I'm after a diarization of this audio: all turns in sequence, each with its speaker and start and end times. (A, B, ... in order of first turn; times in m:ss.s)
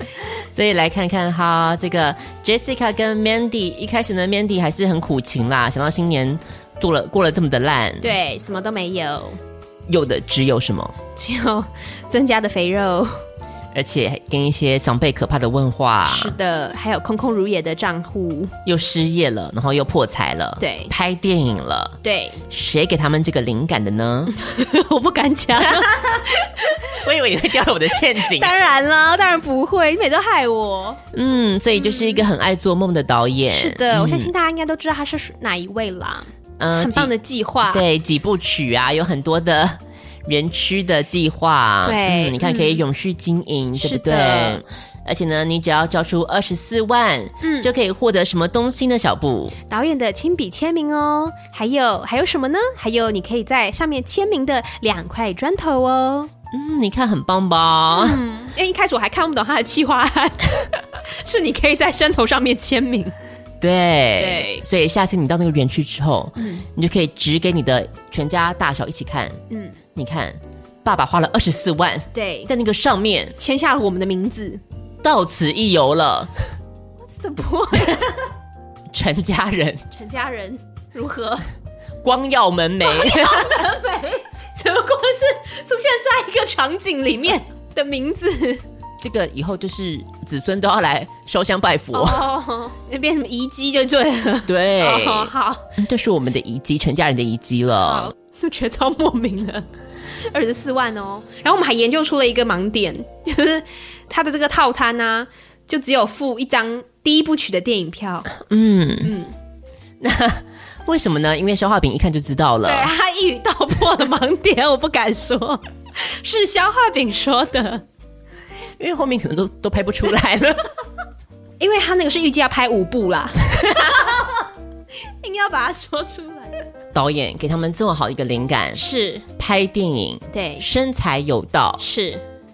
0:00.3-0:08.1 A
0:08.0-0:09.4 B
0:09.9-0:10.9 A
0:11.2-0:13.2 B
0:13.7-0:16.4 A
0:16.1-0:18.5 B
0:18.6-0:22.0 A
0:20.6-0:20.9 B
0:22.0-0:22.4 B
0:22.5-0:24.3 A
0:24.4-0:26.9 B
0:25.6-0:26.2 A
0:26.9-0:28.5 A
0:28.2-0:31.0 B
0:31.1-0:34.3 A
0:31.9-0:32.2 B
0:33.5-0:37.8 B
0:36.6-0:37.1 A
0:37.6-0:49.6 A
0:41.8-0:42.8 B
0:43.8-0:44.6 B
0:47.4-0:47.7 B
0:49.7-0:56.3 B
0:56.5-0:58.2 A
0:57.9-1:03.1 B
1:03.6-1:09.4 A
1:04.2-1:04.6 B
1:06.4-1:06.6 B
1:09.5-1:09.8 B
1:09.9-1:13.4 A
1:12.1-1:12.5 B
1:13.4-1:14.6 B
1:15.0-1:16.3 A
1:17.0-1:18.3 B
1:18.9-1:19.8 A
1:19.9-1:21.5 B
1:22.0-1:23.6 A
1:22.8-1:28.6 B
1:29.0-1:32.2 A
1:31.9-1:35.7 B
1:34.4-1:38.1 A
1:37.8-1:39.7 B
1:40.2-1:48.3 B
1:48.4-1:49.2 A
1:49.0-1:49.3 B
1:50.0-1:52.9 A
1:52.6-1:57.8 B
1:58.8-2:00.7 A
2:01.6-2:04.4 B
2:05.0-2:06.6 B
2:06.9-2:08.8 A
2:08.7-2:09.2 B
2:09.4-2:11.8 A
2:10.3-2:10.6 B
2:11.8-2:12.2 B